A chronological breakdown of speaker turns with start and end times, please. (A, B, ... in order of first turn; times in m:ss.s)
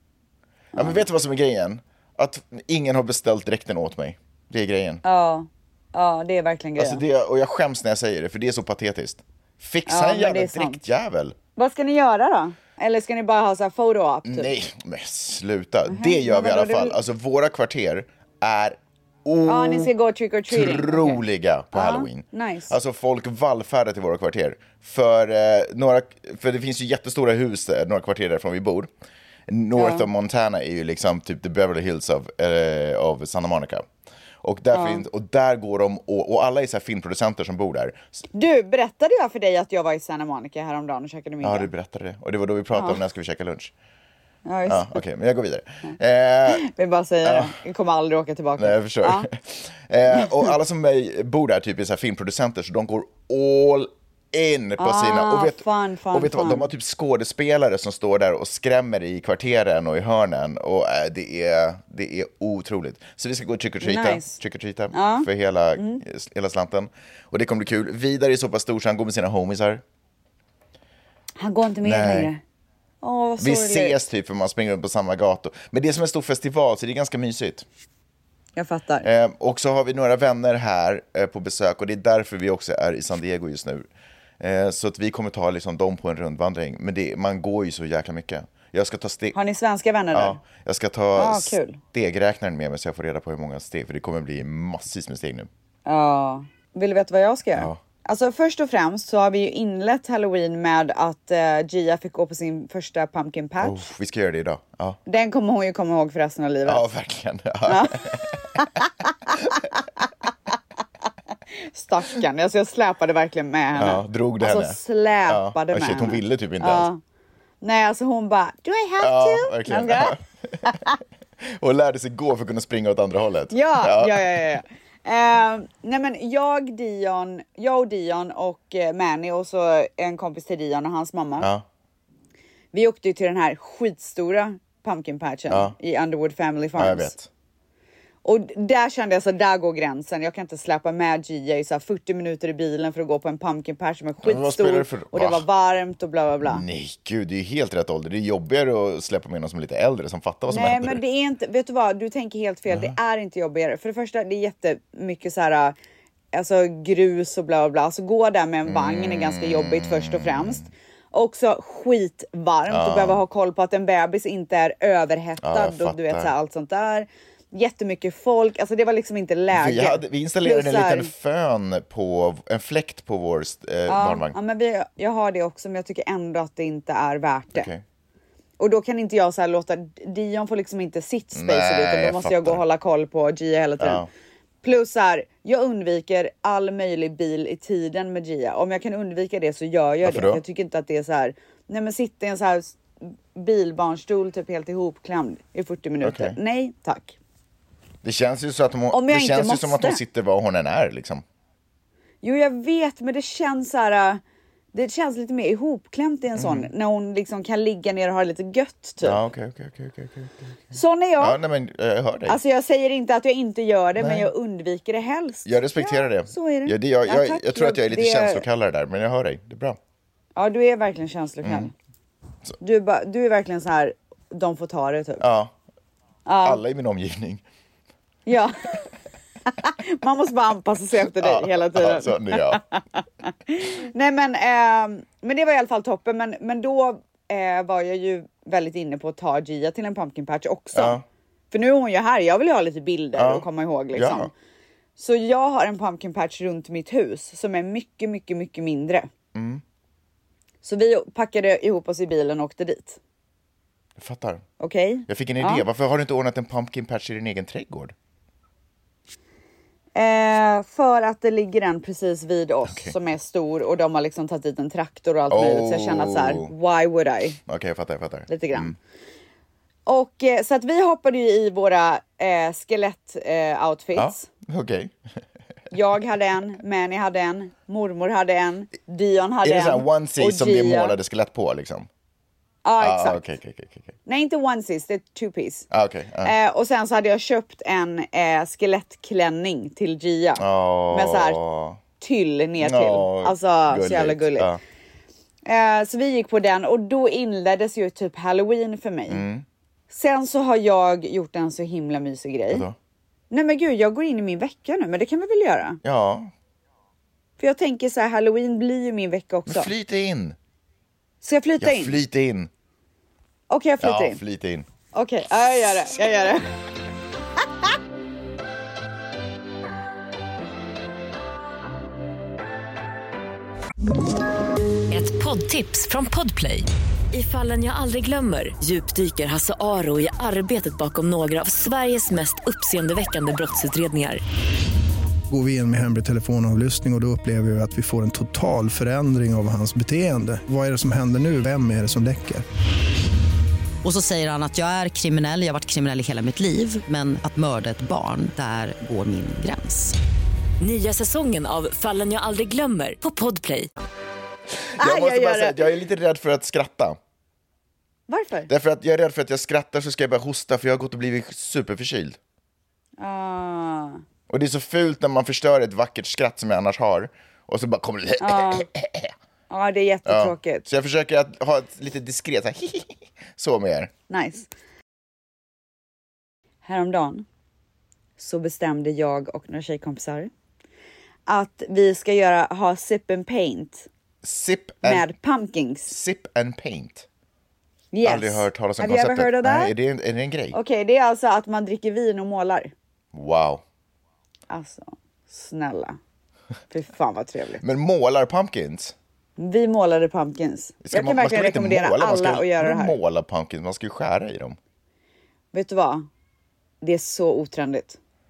0:00.7-0:01.0 A
0:00.7-0:05.0 B
0:05.0-0:07.0 A
0:06.8-0:11.4 B
0:09.9-0:10.8 A
0:11.6-0:14.5 A
0:14.2-0:19.9 B
0:15.9-0:17.0 A
0:19.4-0:21.2 A
0:20.5-0:28.9 B
0:21.7-0:22.7 A
0:29.5-0:33.9 B
0:29.8-0:30.1 A
0:34.4-0:38.1 B
0:34.7-0:35.0 A
0:38.3-0:41.7 A
0:41.4-0:43.7 B
0:42.7-0:43.0 A
0:44.4-0:45.0 A
0:44.7-0:46.6 B
0:46.5-0:49.3 A
0:47.2-0:47.6 B
0:48.6-1:09.8 B
0:50.2-0:50.5 A
0:54.8-0:56.6 A
1:03.8-1:04.4 A
1:04.9-1:06.0 A
1:11.4-1:12.4 A
1:11.8-1:12.3 B
1:13.0-1:14.0 A
1:13.4-1:17.6 B
1:18.6-1:19.1 A
1:19.0-1:23.9 B
1:24.4-1:29.3 B
1:29.3-1:30.4 A
1:30.1-1:35.5 B
1:31.1-1:31.8 A
1:35.8-1:43.9 A
1:37.5-1:37.8 B
1:43.6-1:45.0 B
1:45.0-1:46.9 A
1:46.6-1:48.5 B
1:47.6-1:49.6 A
1:51.6-1:57.0 A
1:53.7-1:56.9 B
1:57.6-2:01.0 A
1:59.0-2:00.2 B
2:01.4-2:04.4 B
2:03.5-2:11.5 A
2:11.4-2:11.6 B
2:12.7-2:17.1 A
2:15.5-2:15.7 B
2:16.8-2:17.3 B
2:18.2-2:26.6 A
2:24.2-2:25.4 B
2:26.4-2:31.0 B
2:30.5-2:35.8 A
2:32.7-2:33.0 B
2:36.3-2:51.1 A
2:38.6-2:40.7 B
2:42.7-2:43.2 B
2:45.4-2:46.3 B
2:49.5-2:54.4 B
2:53.9-2:57.7 A
2:57.5-2:57.8 B
2:58.6-3:04.0 A
3:01.3-3:02.6 B
3:03.8-3:04.1 B
3:04.6-3:17.2 A
3:10.0-3:10.4 B
3:16.0-3:16.4 B
3:18.0-3:21.2 B
3:18.9-3:20.0 A
3:22.2-3:24.2 A
3:24.7-3:29.2 A
3:26.4-3:26.7 B
3:29.0-3:30.5 B
3:30.7-3:31.4 A
3:31.2-3:32.4 B
3:32.3-3:38.4 A
3:34.0-3:34.3 B
3:35.4-3:39.8 B
3:40.4-3:41.7 A
3:41.4-3:41.7 B
3:42.6-3:45.2 A
3:45.2-3:45.5 B
3:46.2-3:46.6 A
3:46.4-3:47.4 B
3:48.3-3:48.9 A
3:49.6-3:52.8 A
3:51.2-3:52.6 B
3:53.4-4:01.0 A
4:00.7-4:01.0 B
4:01.5-4:04.3 A
4:03.2-4:04.3 B
4:05.0-4:09.1 A
4:09.3-4:09.6 B
4:10.6-4:13.0 A
4:14.0-4:14.4 B
4:14.6-4:15.6 A
4:15.1-4:17.9 B
4:19.9-4:27.4 A
4:22.7-4:22.9 B
4:25.3-4:26.5 B
4:27.5-4:28.7 B
4:28.3-4:28.8 A
4:29.8-4:34.3 A
4:33.9-4:34.9 B
4:35.7-4:41.0 A
4:39.4-4:41.9 B
4:42.6-4:43.2 A
4:42.8-4:43.9 B
4:44.0-4:45.7 A
4:45.7-4:46.3 B
4:46.2-4:51.4 A
4:50.4-4:51.8 B
4:52.0-4:54.5 A
4:52.6-4:54.6 B
4:55.4-4:59.2 A
4:59.1-4:59.4 B
4:59.9-5:02.6 A
5:02.5-5:02.8 B
5:03.3-5:05.8 A
5:05.8-5:06.3 B
5:07.4-5:09.7 A
5:09.5-5:10.4 B
5:11.2-5:12.0 A
5:11.6-5:12.5 B
5:13.5-5:14.2 A
5:13.8-5:14.7 B
5:14.9-5:16.4 A
5:24.9-5:34.2 C
5:35.3-5:42.4 D
5:43.8-5:50.0 E
5:50.6-5:53.7 C
5:54.7-5:57.0 B
5:54.8-5:55.7 A
5:58.1-5:58.5 A
5:58.5-6:02.2 B
6:03.0-6:04.0 A
6:04.3-6:09.1 B
6:08.2-6:08.7 A
6:09.5-6:10.6 A
6:10.0-6:13.9 B
6:14.1-6:14.5 A
6:16.6-6:17.2 A
6:18.2-6:20.3 A
6:21.3-6:23.9 A
6:24.2-6:25.1 B
6:24.8-6:25.9 A
6:25.9-6:27.1 B
6:27.9-6:29.7 A
6:28.0-6:30.6 B
6:30.5-6:32.7 A
6:33.1-6:33.6 B
6:34.5-6:36.0 A
6:36.7-6:37.6 A
6:37.6-6:38.9 B
6:39.4-6:43.0 A
6:40.8-6:44.6 B
6:45.5-6:46.1 A
6:46.8-6:48.0 A